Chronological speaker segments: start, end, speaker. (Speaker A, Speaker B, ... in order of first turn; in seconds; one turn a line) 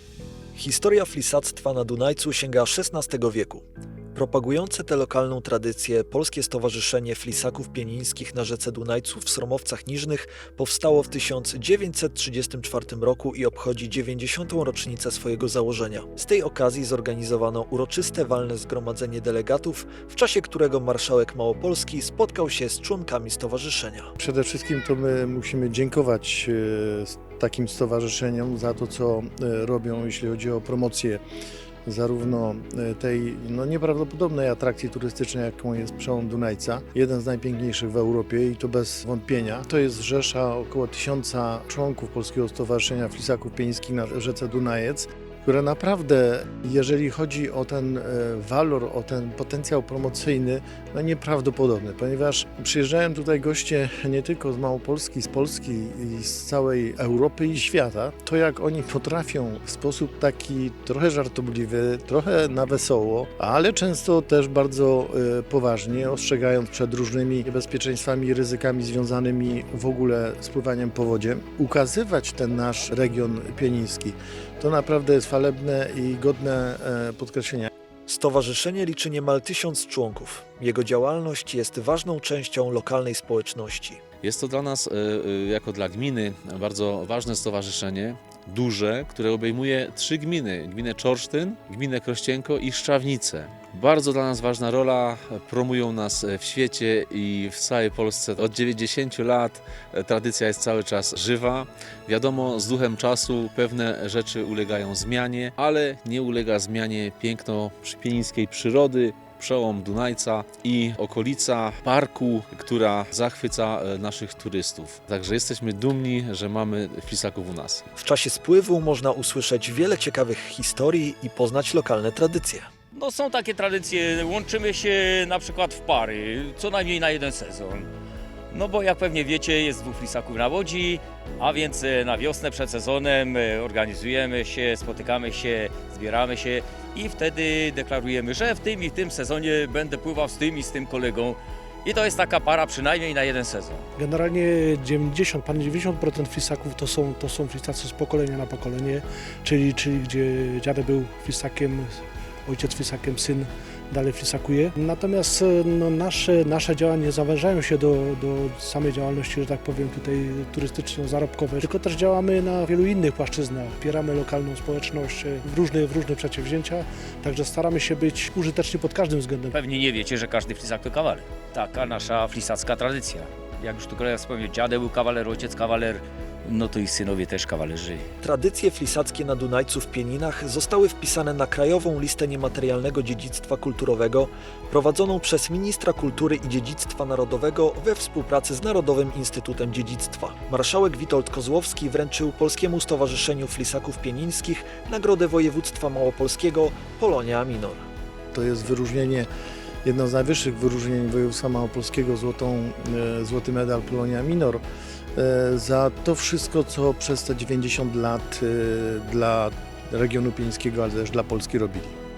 Speaker A: 0.5-24.1
Speaker B: 24.2-31.2
Speaker B: 31.9-77.7
Speaker A: 78.1-84.0
Speaker C: 84.2-117.8
Speaker A: 118.0-122.7
Speaker D: 122.9-127.9
Speaker D: 128.5-143.8
Speaker E: 144.0-169.5
Speaker D: 169.5-178.1
Speaker A: 178.2-197.9
Speaker B: 198.3-199.3
Speaker B: 199.8-204.6
Speaker B: 205.1-211.9